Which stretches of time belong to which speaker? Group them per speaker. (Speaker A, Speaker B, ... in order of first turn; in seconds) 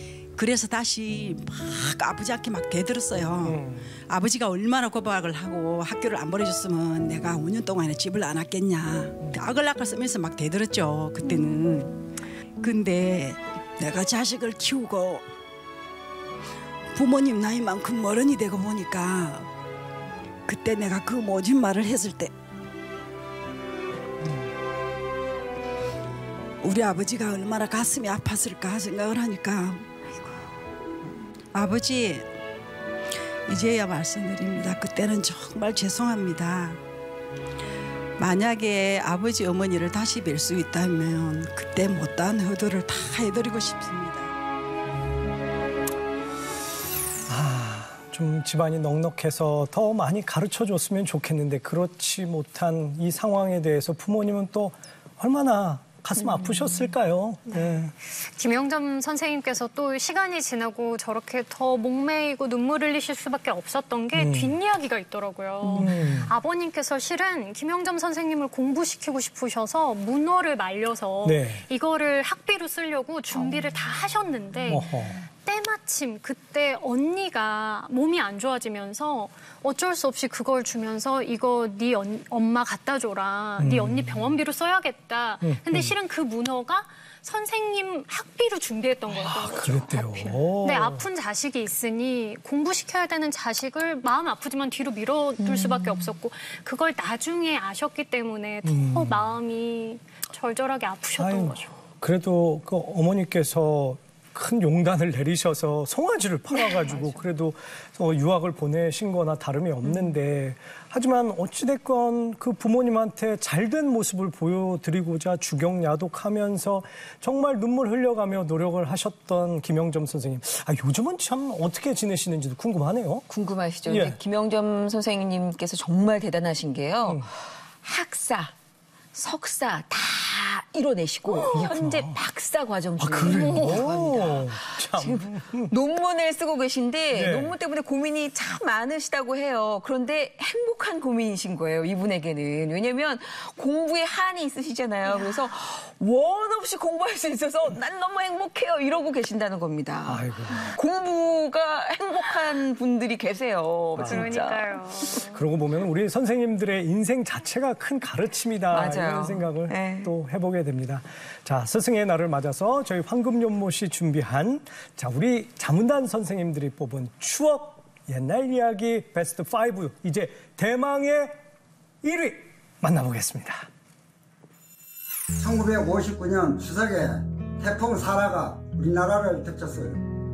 Speaker A: 0.3-12.0, 12.6-15.2, 16.9-19.5, 20.5-22.3, 26.6-29.8, 31.5-32.3, 33.5-36.8, 38.2-44.3
Speaker B: 3.4-3.9, 47.3-57.9, 64.1-64.6, 65.7-66.3, 71.2-71.7, 74.7-75.2, 83.6-84.3, 85.4-85.9, 89.3-91.0, 98.6-99.3, 101.2-123.3, 123.8-124.2, 127.0-127.3, 131.5-132.2, 133.0-135.7, 137.1-137.6, 150.0-150.8, 153.9-154.4, 155.2-171.3, 172.0-173.7
Speaker C: 56.1-56.9, 95.4-96.1, 123.3-127.2, 127.8-128.5, 129.1-154.9, 158.7-160.1
Speaker D: 57.5-101.8, 106.7-107.2, 133.3-133.8, 154.0-155.3
Speaker E: 175.4-180.1